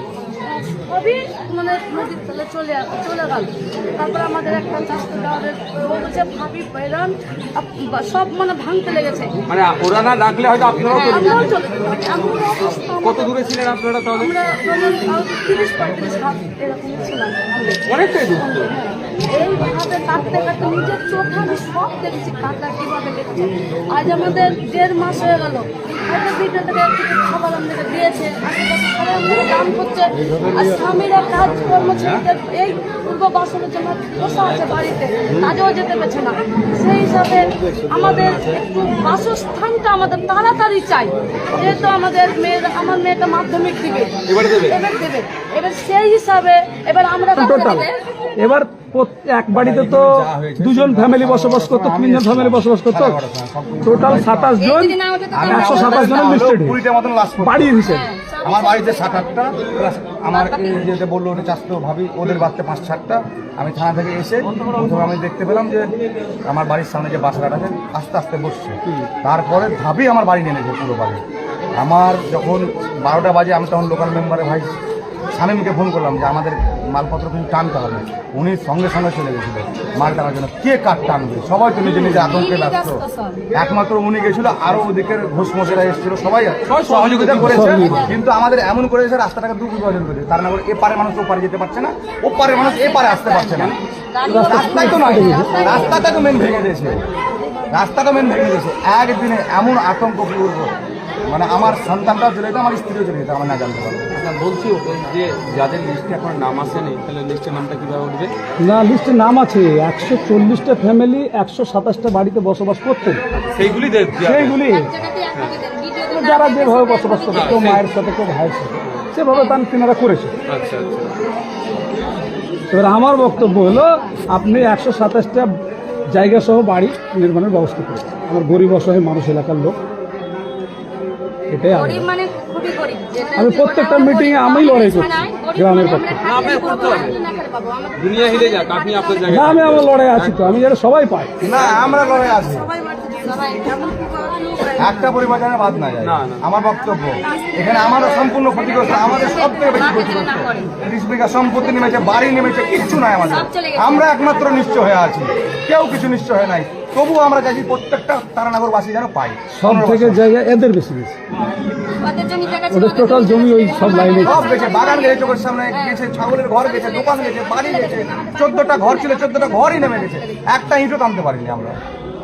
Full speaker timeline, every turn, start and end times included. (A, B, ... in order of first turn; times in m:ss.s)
0:00.5-0:09.3 A
0:09.5-0:11.5 B
0:10.9-0:11.4 C
0:10.9-0:13.5 A
0:12.8-0:14.3 B
0:14.1-0:17.8 A
0:17.8-0:18.7 B
0:18.4-0:47.9 A
0:31.6-0:32.2 B
0:35.3-0:35.5 B
0:37.9-0:38.6 B
0:44.3-0:44.8 B
0:47.4-0:53.2 D
0:49.5-0:54.6 E
0:53.8-0:56.8 D
0:54.6-0:56.4 C
0:55.3-0:57.7 E
0:57.4-0:58.1 D
0:57.8-0:59.7 C
0:58.4-1:05.9 E
1:00.3-1:00.9 C
1:06.5-1:11.2 E
1:11.7-1:14.8 E
1:15.3-1:33.8 E
1:22.0-1:22.4 B
1:22.3-1:23.4 C
1:26.7-1:28.2 B
1:27.5-1:28.0 D
1:32.7-1:36.3 C
1:34.3-1:35.6 D
1:34.3-1:37.0 E
1:35.6-1:36.0 B
1:37.7-1:40.7 E
1:41.2-1:44.1 E
1:44.1-1:48.3 B
1:48.6-1:53.2 D
1:53.3-1:54.6 B
1:54.2-1:54.9 D
1:54.7-1:57.8 C
1:56.1-2:00.4 D
1:57.3-1:57.9 B
2:00.5-2:01.1 B
2:02.7-2:05.5 D
2:06.1-2:09.8 D
2:11.5-2:12.1 D
2:11.7-2:19.4 C
2:13.3-2:16.3 D
2:16.2-2:17.2 B
2:18.0-2:20.6 B
2:19.3-2:21.3 D
2:21.4-2:22.7 E
2:21.7-2:22.0 B
2:22.1-2:24.8 C
2:24.8-2:40.2 E
2:26.0-2:26.4 B
2:27.2-2:30.7 C
2:33.2-2:34.2 C
2:39.5-2:41.2 D
2:42.0-2:50.4 C
2:42.7-2:44.5 D
2:44.2-2:51.8 E